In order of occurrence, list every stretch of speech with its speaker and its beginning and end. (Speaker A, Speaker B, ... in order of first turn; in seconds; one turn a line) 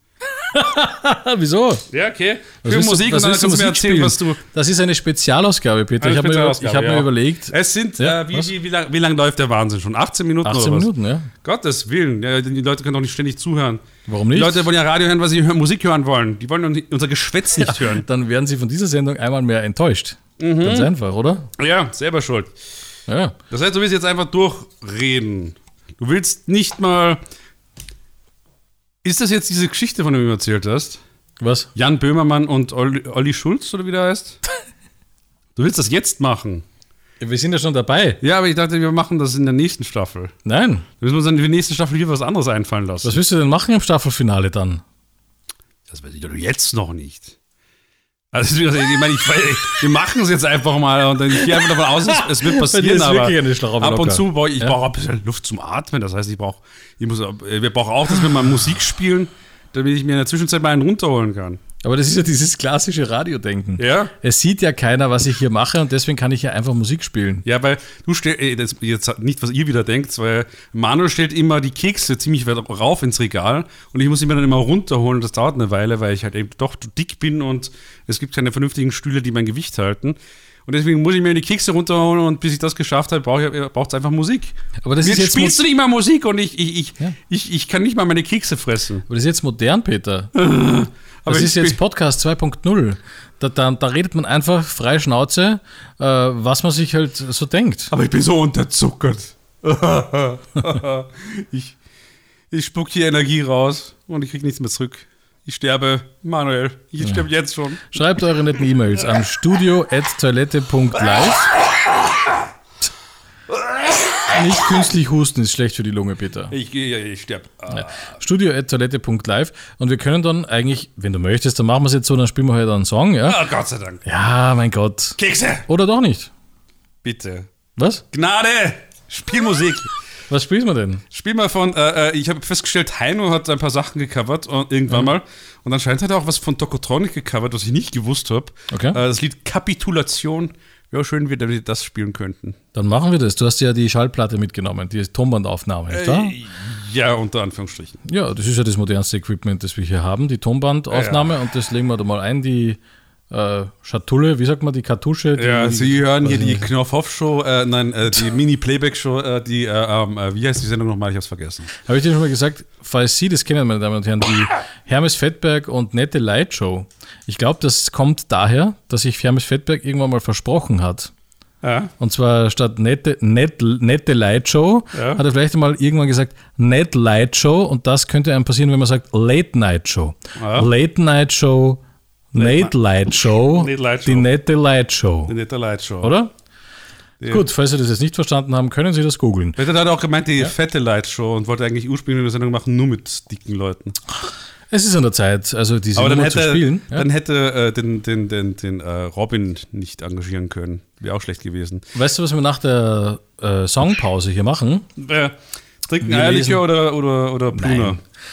Speaker A: 0.3-1.9
Speaker B: 1.9-4.4
Speaker A: 2.6-8.5
Speaker B: 6.0-10.9
Speaker A: 10.4-11.3
Speaker B: 11.4-18.1
Speaker A: 14.1-14.7
Speaker A: 17.6-21.5
Speaker B: 20.4-20.9
Speaker B: 21.6-22.5
Speaker A: 23.1-23.4
Speaker B: 23.5-27.2
Speaker B: 29.0-31.0
Speaker A: 31.4-31.7
Speaker B: 31.8-34.4
Speaker B: 35.6-36.6
Speaker A: 37.2-38.2
Speaker B: 38.2-40.3
Speaker A: 40.5-40.9
Speaker B: 41.0-43.2
Speaker A: 43.0-44.8
Speaker B: 45.9-47.4
Speaker B: 48.3-61.6
Speaker A: 51.4-54.8
Speaker A: 61.8-67.5
Speaker B: 63.8-64.1
Speaker B: 67.5-89.1
Speaker A: 84.8-85.6
Speaker A: 89.1-90.3
Speaker B: 90.3-91.8
Speaker A: 91.3-97.9
Speaker B: 97.9-101.8
Speaker B: 102.5-107.9
Speaker A: 107.0-107.3
Speaker A: 107.9-111.5
Speaker A: 114.3-116.5
Speaker B: 116.5-118.1
Speaker A: 117.7-123.4
Speaker B: 123.2-124.0
Speaker A: 124.0-126.3
Speaker B: 125.2-125.7
Speaker B: 127.0-127.5
Speaker A: 127.8-128.0
Speaker B: 128.1-129.9
Speaker A: 130.3-131.0
Speaker B: 131.1-142.6
Speaker A: 138.7-139.0
Speaker A: 142.7-146.4
Speaker B: 145.9-148.0
Speaker A: 148.1-156.7
Speaker B: 150.9-151.3
Speaker B: 155.4-161.7
Speaker A: 161.8-171.1
Speaker B: 171.6-171.9
Speaker A: 172.0-181.8
Speaker B: 174.9-175.2
Speaker B: 180.4-180.7
Speaker A: 182.3-185.3
Speaker B: 182.4-182.7
Speaker B: 183.4-184.3
Speaker B: 185.3-186.1
Speaker A: 186.0-186.3
Speaker B: 187.2-187.5
Speaker A: 187.3-189.6
Speaker B: 189.6-194.0
Speaker A: 194.7-197.1
Speaker B: 196.0-201.8
Speaker A: 201.9-204.9
Speaker B: 205.0-208.0
Speaker A: 206.0-206.7
Speaker A: 207.5-208.0